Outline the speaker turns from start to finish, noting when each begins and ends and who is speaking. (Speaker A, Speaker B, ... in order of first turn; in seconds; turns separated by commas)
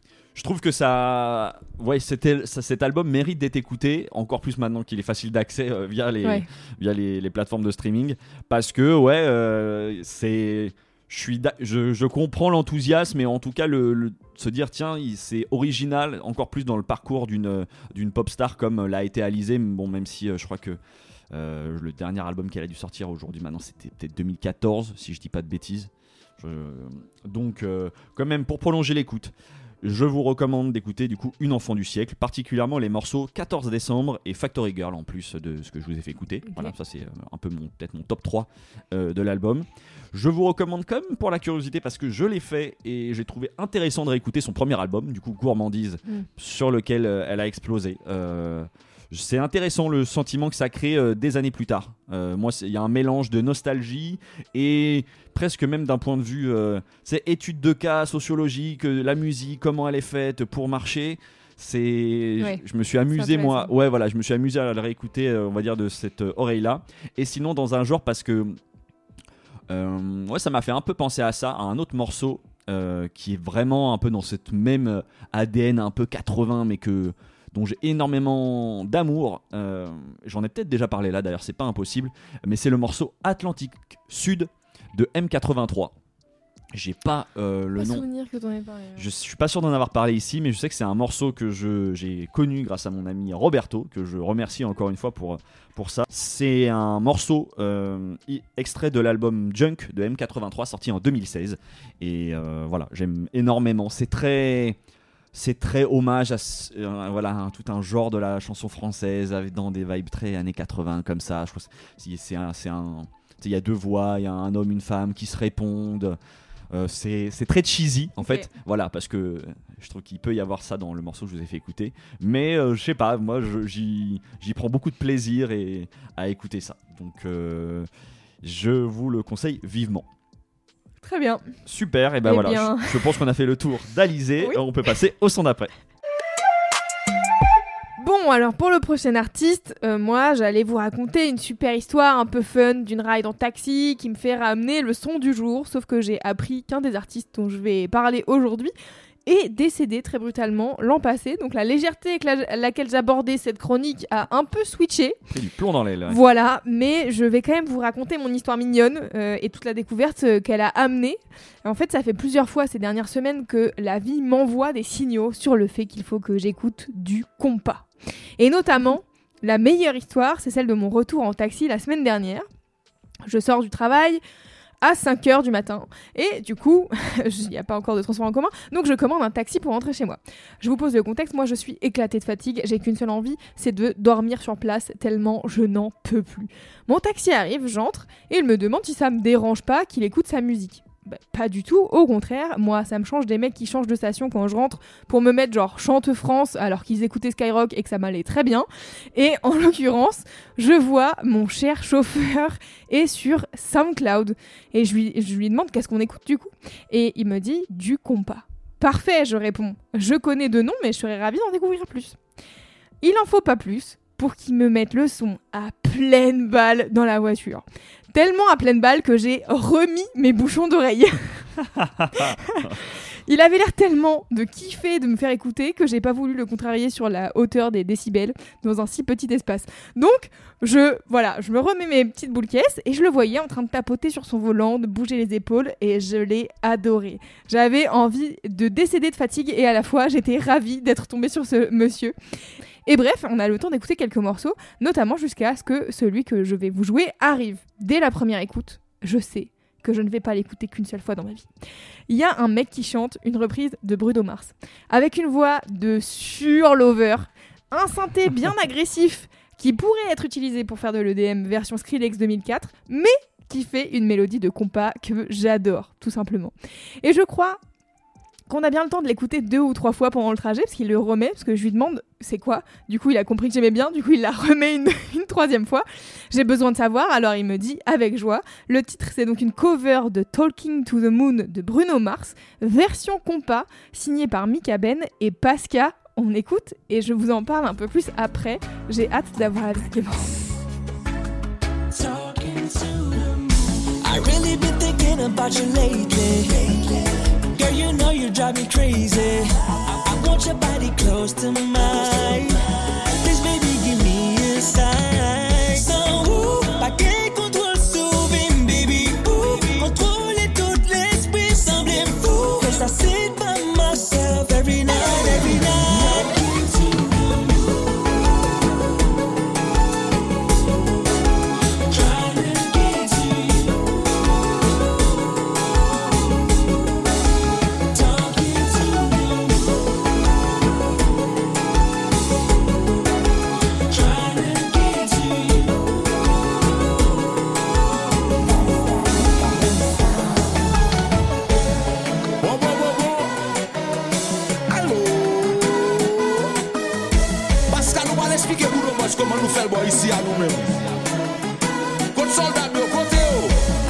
Speaker A: 0.3-20.8, Speaker A: 21.3-68.6, Speaker B: 36.4-36.7, Speaker B: 63.1-63.7, Speaker A: 69.7-85.9, Speaker A: 86.7-88.0, Speaker B: 87.8-89.1, Speaker A: 89.0-104.8, Speaker A: 105.3-116.2, Speaker A: 116.7-127.9, Speaker B: 118.2-118.5, Speaker A: 128.4-130.1, Speaker B: 131.0-131.4, Speaker A: 131.7-135.7, Speaker B: 132.2-133.0, Speaker B: 138.0-148.7, Speaker B: 149.2-155.2, Speaker A: 155.3-156.2, Speaker B: 156.1-167.9, Speaker B: 168.4-172.4, Speaker B: 173.3-174.2, Speaker B: 174.8-212.2, Speaker B: 213.0-221.4, Speaker A: 221.7-222.8, Speaker B: 222.1-242.1, Speaker B: 242.8-251.5, Speaker B: 252.1-267.6, Speaker B: 268.5-290.6, Speaker C: 291.9-317.6, Speaker C: 321.9-323.8, Speaker C: 327.9-329.7, Speaker C: 333.9-335.8, Speaker D: 342.4-343.4, Speaker D: 344.7-346.5, Speaker D: 347.7-350.9, Speaker D: 352.1-353.6